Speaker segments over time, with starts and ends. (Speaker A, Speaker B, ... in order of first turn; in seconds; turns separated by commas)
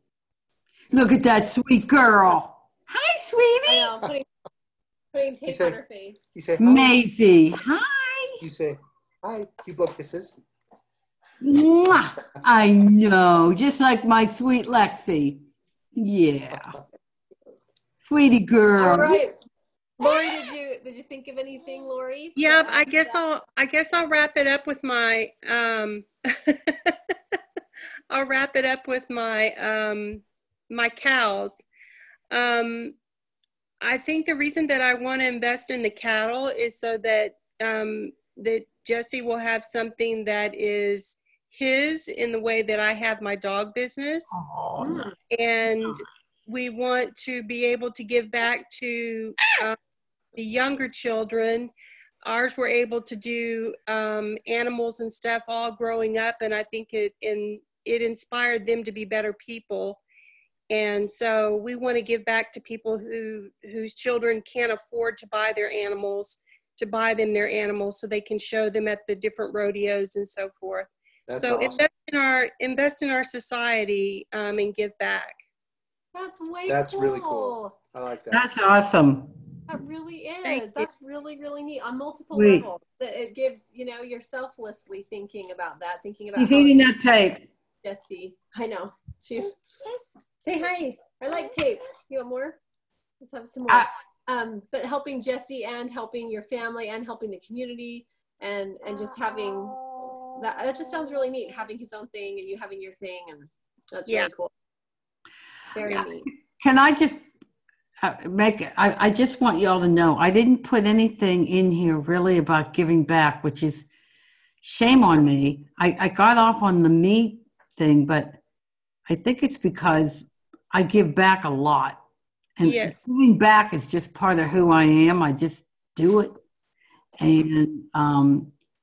Speaker A: 0.9-4.0, Speaker B: 3.6-4.3, Speaker B: 5.1-6.2, Speaker C: 5.5-5.8, Speaker C: 6.3-7.0, Speaker A: 6.6-8.4, Speaker C: 8.4-10.3, Speaker A: 11.4-16.8, Speaker A: 18.0-19.2, Speaker B: 18.7-19.3, Speaker C: 18.8-19.1, Speaker B: 20.0-23.2, Speaker D: 22.4-26.9, Speaker D: 28.1-31.6, Speaker D: 32.3-33.0, Speaker D: 33.8-44.4, Speaker A: 44.3-45.1, Speaker B: 44.8-45.1, Speaker D: 45.3-49.8, Speaker D: 50.3-51.7, Speaker D: 52.2-60.0, Speaker D: 60.7-75.4, Speaker C: 71.3-71.8, Speaker B: 76.1-77.8, Speaker C: 76.7-78.4, Speaker A: 78.3-79.3, Speaker B: 79.7-86.9, Speaker D: 80.4-80.9, Speaker A: 82.3-82.7, Speaker A: 86.3-87.5, Speaker B: 87.8-89.6, Speaker B: 90.4-92.6, Speaker B: 93.2-104.5, Speaker B: 105.7-106.3, Speaker A: 106.6-107.2, Speaker A: 108.0-113.8, Speaker A: 114.6-118.4, Speaker A: 119.1-122.0, Speaker A: 122.6-126.4, Speaker D: 122.6-123.1, Speaker A: 127.2-128.5